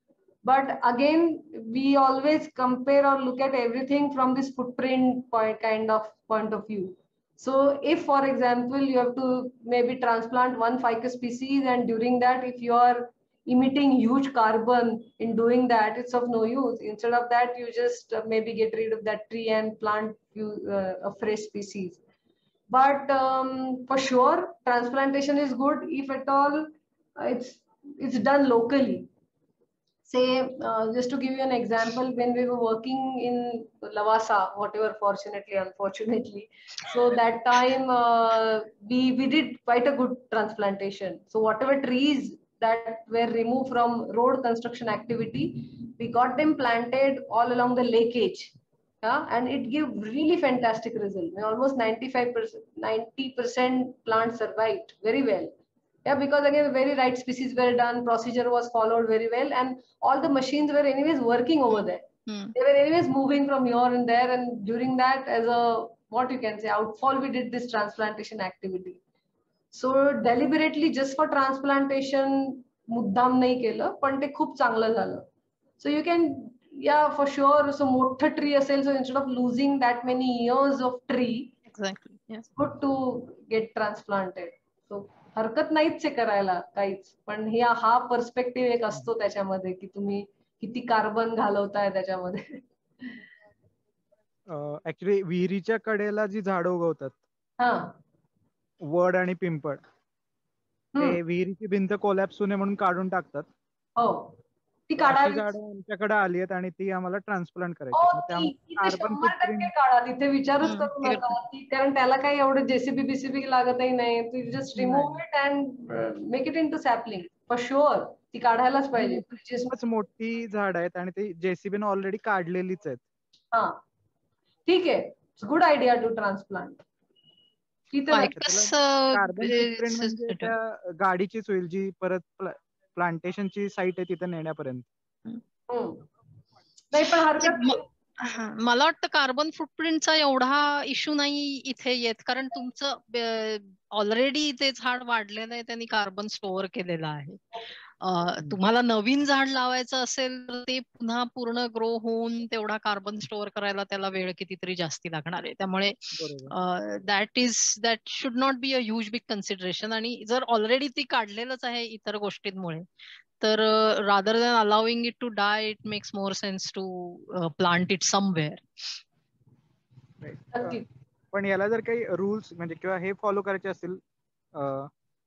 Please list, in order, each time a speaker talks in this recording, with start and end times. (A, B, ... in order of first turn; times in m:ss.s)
0:00.4-0:22.0 A
0:22.7-0:29.1 A
0:30.1-0:55.5 A
0:56.0-1:09.0 A
1:02.3-1:02.6 B
1:09.7-1:15.3 A
1:15.8-1:21.5 A
1:21.7-1:22.4 B
1:22.6-1:33.1 A
1:34.5-1:37.2 C
1:37.6-1:38.0 A
1:38.8-1:39.8 C
1:41.0-1:43.5 C
1:44.0-1:44.4 A
1:44.9-1:45.5 A
1:45.0-1:49.7 C
1:47.9-1:59.8 A
1:50.6-1:51.3 B
1:54.8-1:55.2 C
1:59.7-2:03.0 C
2:03.5-2:03.8 A
2:04.7-2:06.8 A
2:07.9-2:08.4 A
2:08.1-2:10.5 B
2:08.2-2:14.9 C
2:15.7-2:16.0 A
2:16.9-2:17.9 A
2:17.4-2:27.4 B
2:28.0-2:36.0 B
2:36.2-2:36.5 C
2:36.5-2:42.8 B
2:43.4-2:48.6 B
2:50.2-2:54.0 C
2:50.5-2:50.8 A
2:54.5-2:54.9 C